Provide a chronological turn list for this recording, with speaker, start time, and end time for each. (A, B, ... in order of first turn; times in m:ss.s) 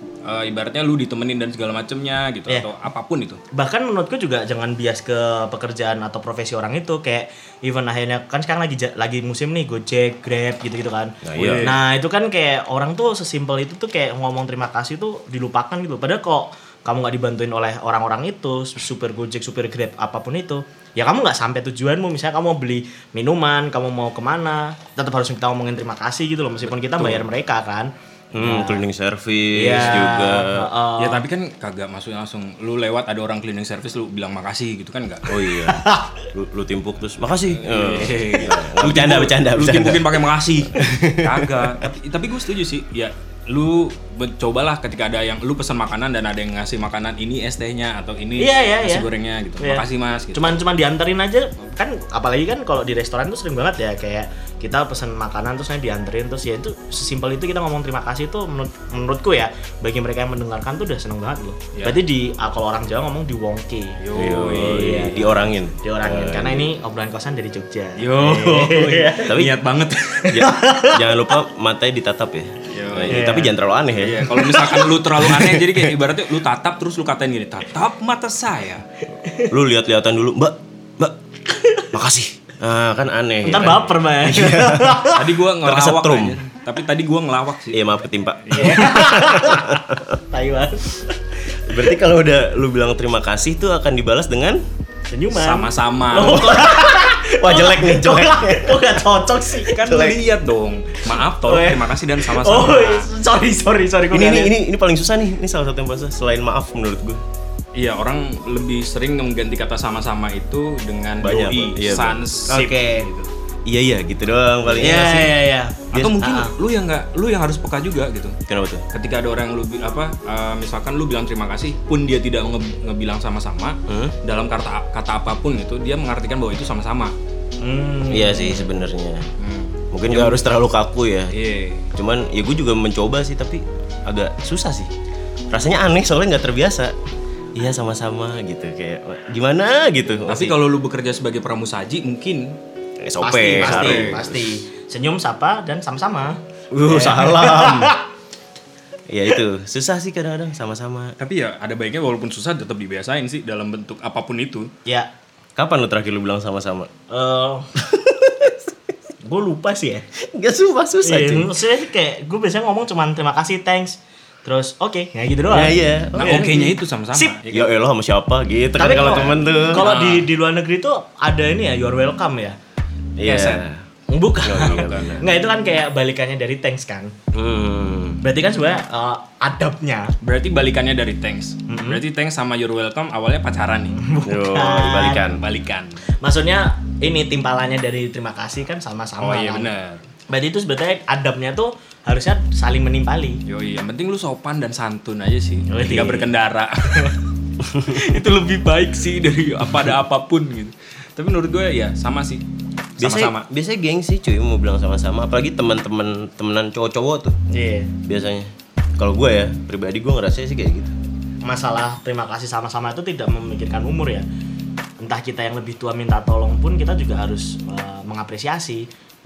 0:00.2-0:03.4 A
0:03.5-0:28.8 B
0:11.2-0:11.7 C
0:11.3-0:11.8 A
0:27.0-0:27.2 C
0:28.3-0:30.7 C
0:29.5-0:31.2 B
0:31.0-0:35.3 A
0:35.3-0:41.7 C
0:35.5-0:36.2 B
0:37.5-0:50.6 A
0:48.4-0:49.1 B
0:49.6-1:04.0 B
1:01.7-1:02.0 A
1:04.0-1:05.5 A
1:04.1-1:06.7 C
1:04.5-1:09.4 B
1:08.0-1:10.4 A
1:09.3-1:09.6 C
1:10.3-1:11.3 B
1:10.3-1:14.4 C
1:12.7-1:13.3 A
1:13.1-1:13.6 B
1:13.9-1:18.8 A
1:14.3-1:15.8 B
1:19.2-1:19.5 B
1:19.5-1:21.2 C
1:21.5-1:21.9 B
1:21.9-1:26.4 C
1:23.4-1:25.3 B
1:25.1-1:27.9 A
1:27.7-1:30.0 C
1:28.4-1:28.9 A
1:28.5-1:31.8 B
1:31.6-1:34.6 C
1:35.1-1:40.0 B
1:35.3-1:36.5 A
1:36.2-1:39.0 C
1:39.5-1:43.1 A
1:39.9-1:40.2 C
1:41.0-1:44.6 B
1:44.1-1:47.2 C
1:47.7-1:53.3 A
1:51.2-1:52.3 C
1:52.5-1:53.1 B
1:53.6-1:55.4 C
1:54.8-1:56.5 B
1:55.9-1:58.4 A
1:55.9-1:56.4 C
1:58.5-1:58.8 C
1:58.9-2:07.1 A
2:03.9-2:04.2 C
2:07.6-2:08.7 B
2:08.1-2:09.2 C
2:09.4-2:10.5 A
2:09.9-2:11.3 C
2:11.3-2:11.9 A
2:11.9-2:14.9 C
2:15.5-2:16.9 C
2:17.5-2:20.6 C
2:20.3-2:22.6 A
2:23.0-2:24.5 C
2:23.2-2:28.0 B
2:23.5-2:24.2 A
2:26.7-2:28.0 C
2:29.1-2:31.1 C
2:31.2-2:34.7 A
2:35.6-2:36.9 C
2:37.1-2:37.7 B
2:37.8-2:38.6 C
2:39.2-2:40.0 B
2:40.2-2:41.5 C
2:41.0-2:47.4 B
2:45.5-2:46.8 C
2:46.2-2:47.7 A
2:47.5-2:49.8 C
2:48.8-2:52.6 B
2:48.9-2:50.3 A
2:53.2-2:53.8 C
2:53.2-2:53.6 A
2:54.1-2:57.1 B
2:54.4-2:55.2 C
2:54.6-2:55.2 A
2:57.3-2:58.2 C
2:58.2-3:00.1 B
3:00.2-3:04.0 A
3:01.7-3:02.0 B
3:04.0-3:05.2 B
3:04.2-3:05.4 C
3:05.1-3:06.0 A
3:06.2-3:09.7 B
3:09.2-3:10.0 A
3:10.3-3:13.4 B
3:13.5-3:22.4 A
3:15.7-3:16.3 B
3:23.0-3:23.4 A
3:23.0-3:27.4 C
3:27.5-3:27.9 B
3:28.0-3:30.9 C
3:31.4-3:34.2 B
3:35.0-3:38.8 B